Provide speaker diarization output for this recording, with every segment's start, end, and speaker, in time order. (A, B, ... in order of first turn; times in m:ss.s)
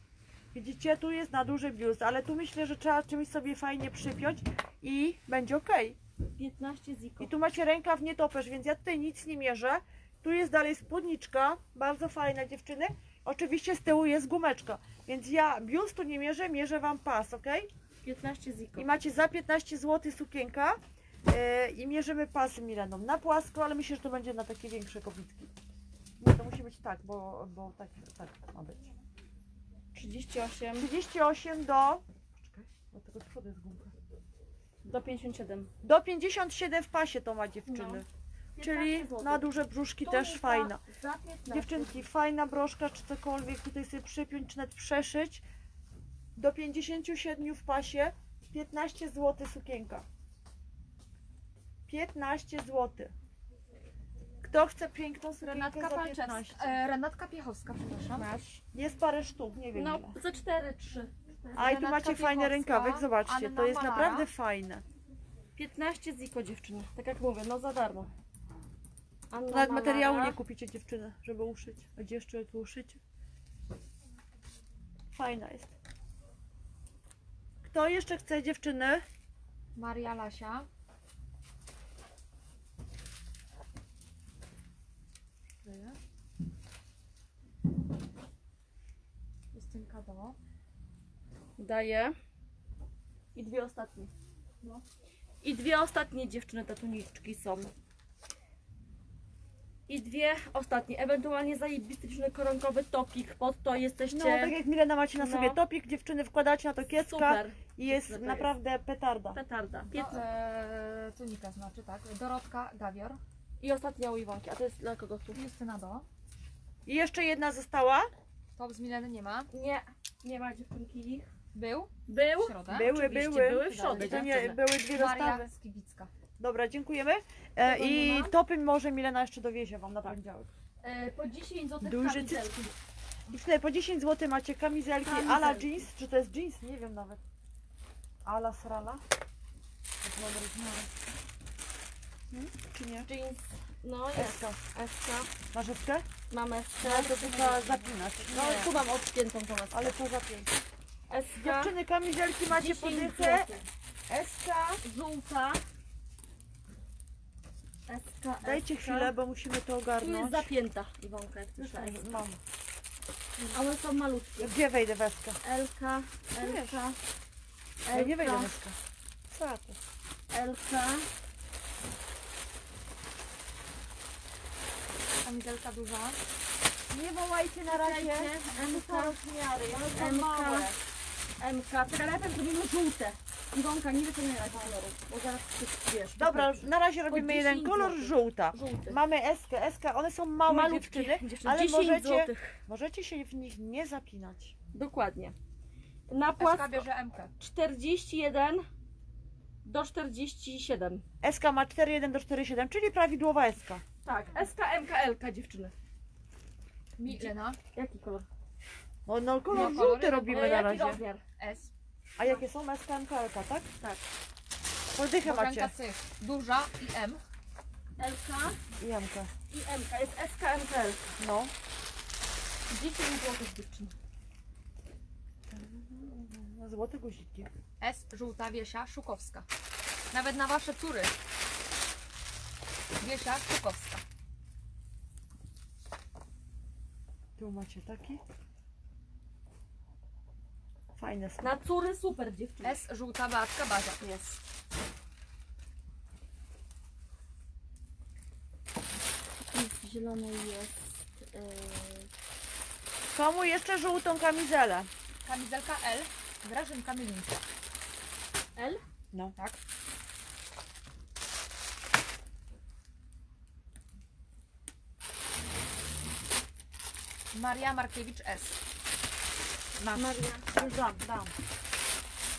0:00.5-0:06.0 A
0:06.4-0:07.3 B
0:07.2-0:17.7 A
0:18.0-0:18.9 B
0:18.8-0:25.5 A
0:26.2-0:28.9 A
0:29.9-0:30.9 B
0:30.8-0:33.9 A
0:34.8-0:35.7 B
0:35.8-0:38.1 A
0:37.7-0:38.0 B
0:38.6-0:39.4 B
0:38.6-0:40.8 A
0:40.0-0:42.0 B
0:41.5-0:45.4 A
0:46.4-0:50.0 A
0:51.9-0:53.1 A
0:54.4-0:56.8 A
0:55.4-0:58.3 C
0:58.2-0:58.6 B
0:58.7-1:00.2 A
0:59.8-1:01.7 B
1:01.6-1:04.8 A
1:01.6-1:04.3 C
1:05.6-1:08.1 B
1:09.3-1:10.4 B
1:09.5-1:13.0 A
1:15.1-1:15.7 A
1:17.6-1:19.0 A
1:19.8-1:20.7 C
1:25.6-1:26.0 C
1:29.5-1:30.4 C
1:31.6-1:32.1 B
1:33.4-1:34.1 B
1:35.4-1:37.7 B
1:39.9-1:44.6 B
1:44.1-1:49.4 A
1:45.2-1:45.6 B
1:47.0-1:48.5 B
1:49.4-1:50.2 B
1:49.9-1:53.2 C
1:53.6-1:55.4 B
1:55.4-1:56.0 C
1:56.9-1:58.1 A
1:58.6-1:59.5 C
1:59.5-2:01.3 B
2:01.6-2:02.9 C
2:02.1-2:04.6 B
2:02.7-2:05.5 A
2:03.7-2:04.3 C
2:04.9-2:06.1 C
2:06.4-2:10.5 A
2:07.7-2:08.3 C
2:10.8-2:12.7 B
2:11.8-2:12.6 A
2:13.3-2:17.2 A
2:15.0-2:15.8 B
2:18.2-2:19.0 A
2:20.0-2:20.9 A
2:22.3-2:23.1 A
2:23.0-2:25.3 B
2:24.1-2:24.6 A
2:25.5-2:26.1 A
2:26.3-2:27.7 B
2:26.8-2:28.8 A
2:27.4-2:28.7 C
2:28.3-2:30.0 B
2:29.7-2:30.5 A
2:31.1-2:31.7 B
2:31.4-2:33.5 A
2:32.5-2:33.6 B
2:34.1-2:34.8 A
2:34.8-2:35.6 B
2:37.9-2:39.1 B
2:38.4-2:40.5 A
2:40.0-2:42.2 B
2:41.6-2:42.4 A
2:43.5-2:44.5 B
2:44.4-2:45.4 A
2:45.4-2:47.0 B
2:46.4-2:46.8 A
2:47.8-2:48.5 B
2:47.9-2:48.8 A
2:49.3-2:49.8 A
2:50.3-2:51.1 B
2:55.2-2:56.2 C
2:56.9-3:00.8 A
2:57.7-2:59.2 B
2:59.8-3:00.7 B
3:01.4-3:09.0 B
3:06.2-3:14.6 A
3:10.5-3:12.6 B
3:14.7-3:15.4 B
3:16.1-3:16.9 B
3:16.4-3:17.3 C
3:17.4-3:18.7 B
3:19.6-3:21.0 B
3:21.2-3:23.8 A
3:24.0-3:25.7 B
3:27.0-3:27.6 C
3:27.1-3:28.3 B
3:29.1-3:31.0 A
3:29.5-3:30.8 C
3:29.5-3:31.2 B
3:31.4-3:31.7 C
3:32.2-3:33.7 A
3:35.0-3:35.7 A
3:35.2-3:37.2 C
3:38.0-3:38.6 B
3:38.8-3:39.3 A
3:39.5-3:41.0 B
3:41.2-3:41.5 A
3:42.7-3:43.9 B
3:45.5-3:47.5 A
3:47.8-3:49.5 C
3:50.1-3:51.2 C
3:53.0-3:54.0 C
3:57.4-3:58.2 A
4:01.0-4:01.5 A
4:01.4-4:02.8 B
4:02.6-4:04.0 C
4:04.0-4:04.4 B
4:09.5-4:12.1 B
4:13.1-4:14.9 A
4:15.2-4:17.4 C
4:18.6-4:18.8 B
4:27.3-4:28.6 C
4:29.8-4:31.3 A
4:29.9-4:30.7 B